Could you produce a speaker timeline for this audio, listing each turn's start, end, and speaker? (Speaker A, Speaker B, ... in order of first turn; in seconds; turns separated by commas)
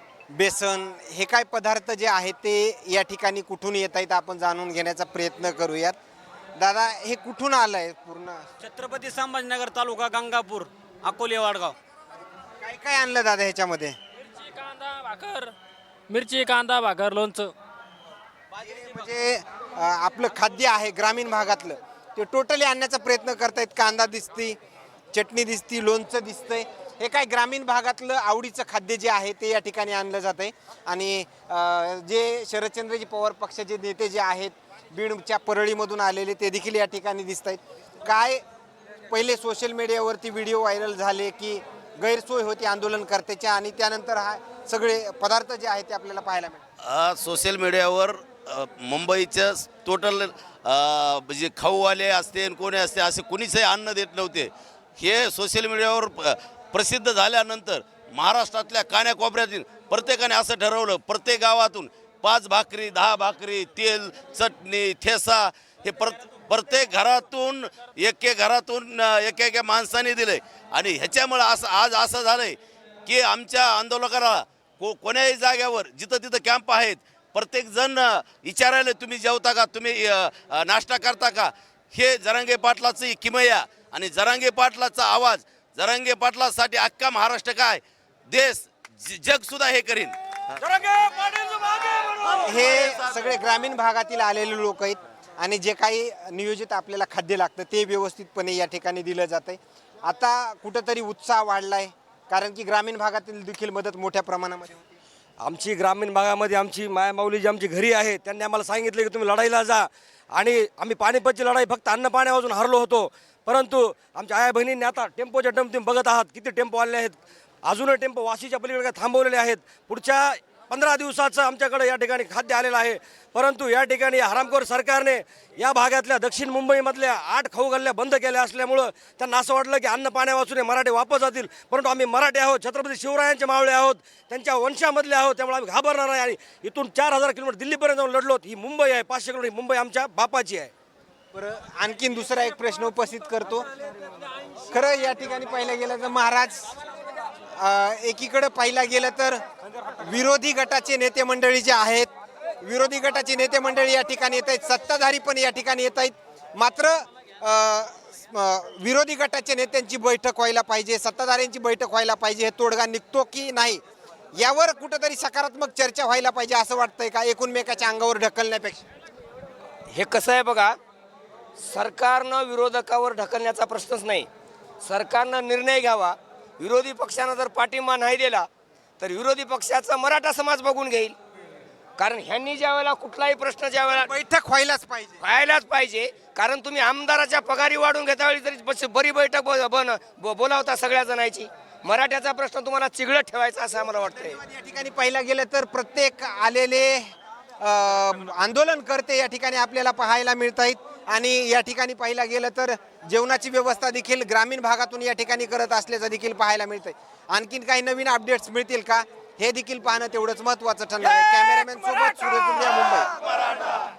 Speaker A: 0.3-6.0, Speaker A: 6.6-8.5, Speaker B: 8.6-11.8, Speaker A: 12.6-14.0, Speaker C: 14.3-15.5, Speaker C: 16.1-17.5, Speaker A: 18.5-24.6, Speaker A: 25.1-38.4, Speaker A: 39.1-46.6, Speaker D: 46.8-90.2, Speaker E: 90.6-93.0, Speaker A: 92.3-104.9, Speaker E: 105.4-140.7, Speaker A: 141.3-143.7, Speaker A: 144.7-146.8, Speaker A: 147.6-152.1, Speaker A: 152.6-163.8, Speaker A: 164.4-168.8, Speaker F: 169.9-170.8, Speaker F: 171.6-174.3, Speaker F: 174.8-178.5, Speaker F: 179.0-181.2, Speaker F: 182.0-184.1, Speaker A: 184.0-185.2, Speaker F: 185.2-194.4, Speaker A: 194.1-213.1, Speaker D: 213.3-213.7